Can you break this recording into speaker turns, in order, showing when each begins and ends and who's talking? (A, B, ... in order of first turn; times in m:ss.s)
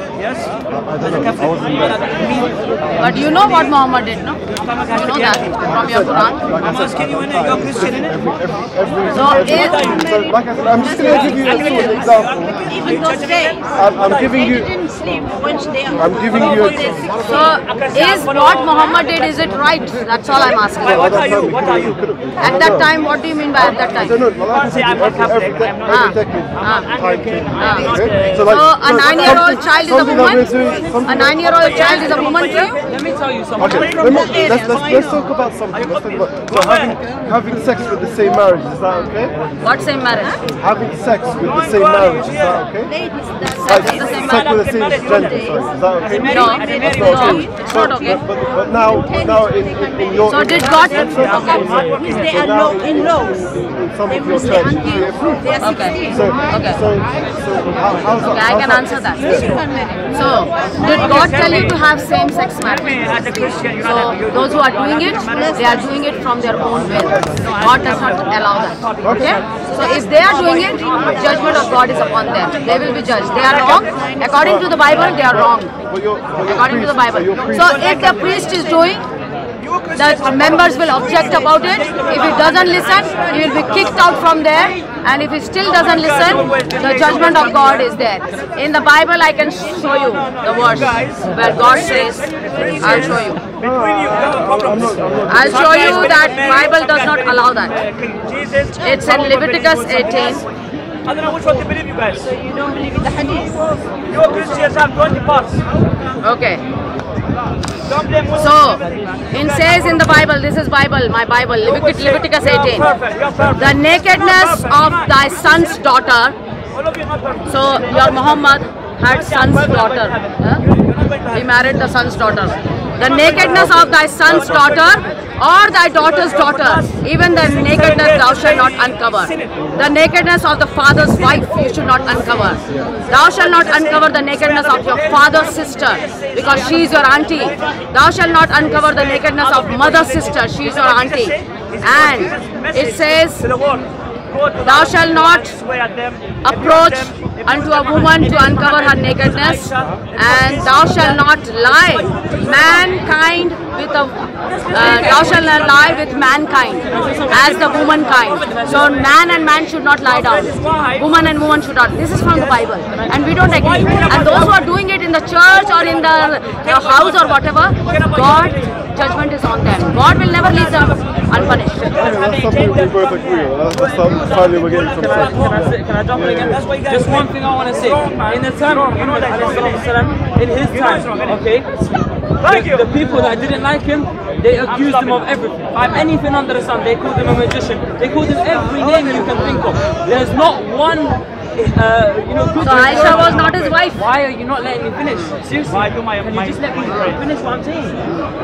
0:00.7-0:02.2 A
0:01.7-0:03.4 B
0:03.0-0:06.5 C
0:04.9-0:05.6 D
0:05.6-0:14.7 A
0:06.8-0:07.9 D
0:09.1-0:10.1 C
0:10.7-0:17.5 E
0:12.1-0:13.6 D
0:15.9-0:17.3 A
0:17.2-0:21.2 C
0:17.7-0:18.8 D
0:20.8-0:22.9 A
0:21.0-0:21.9 D
0:22.4-0:24.2 C
0:23.6-0:31.5 A
0:24.5-0:25.8 D
0:25.8-0:26.9 C
0:26.7-0:28.3 D
0:27.6-0:32.8 C
0:31.5-0:32.6 D
0:32.8-0:34.3 B
0:33.6-0:39.3 A
0:34.0-0:35.2 E
0:35.8-0:36.8 D
0:39.6-0:40.4 C
0:40.5-0:59.6 A
0:41.7-0:42.5 D
0:42.9-0:44.3 E
0:43.8-0:44.2 C
0:44.2-0:45.2 D
0:45.0-0:45.7 E
0:46.2-0:46.8 D
0:46.2-0:48.2 C
0:46.5-0:48.2 E
0:48.9-0:53.5 E
0:50.2-0:51.8 C
0:51.8-0:52.1 D
0:54.1-0:56.3 E
0:55.6-0:56.8 C
0:58.2-0:59.4 C
0:59.2-1:01.8 E
1:00.1-1:15.7 C
1:03.0-1:04.7 D
1:05.3-1:05.9 E
1:07.4-1:08.0 D
1:09.0-1:09.4 A
1:09.8-1:11.9 E
1:12.4-1:15.0 E
1:14.4-1:17.8 A
1:16.5-1:19.0 C
1:17.8-1:18.2 D
1:19.9-1:33.4 C
1:20.6-1:22.2 E
1:26.4-1:27.7 D
1:30.9-1:33.0 D
1:33.6-1:35.9 A
1:34.1-1:34.6 D
1:35.3-1:37.8 C
1:35.5-1:36.9 D
1:37.8-1:40.3 D
1:38.8-1:40.4 C
1:41.1-1:42.2 D
1:42.2-1:44.6 E
1:44.2-1:45.6 D
1:46.2-1:46.6 C
1:48.0-1:48.3 D
1:48.3-1:52.9 C
1:52.7-1:53.5 D
1:53.5-1:56.4 C
1:56.9-1:57.4 D
1:57.4-2:00.6 C
1:59.4-1:59.8 D
2:01.3-2:23.4 C
2:03.0-2:03.4 D
2:03.4-2:04.6 A
2:07.7-2:08.3 D
2:12.6-2:12.9 A
2:19.2-2:19.8 D
2:21.9-2:22.7 D
2:23.5-2:23.8 D
2:24.4-2:27.1 D
2:24.6-2:25.6 C
2:26.4-2:51.9 C
2:30.1-2:30.5 D
2:34.7-2:35.5 B
2:36.9-2:38.9 B
2:43.0-2:43.4 B
2:43.8-2:44.1 D
2:51.3-2:56.6 A
2:52.0-2:53.0 D
2:54.0-3:18.0 B
3:12.6-3:14.0 C
3:15.8-3:16.2 D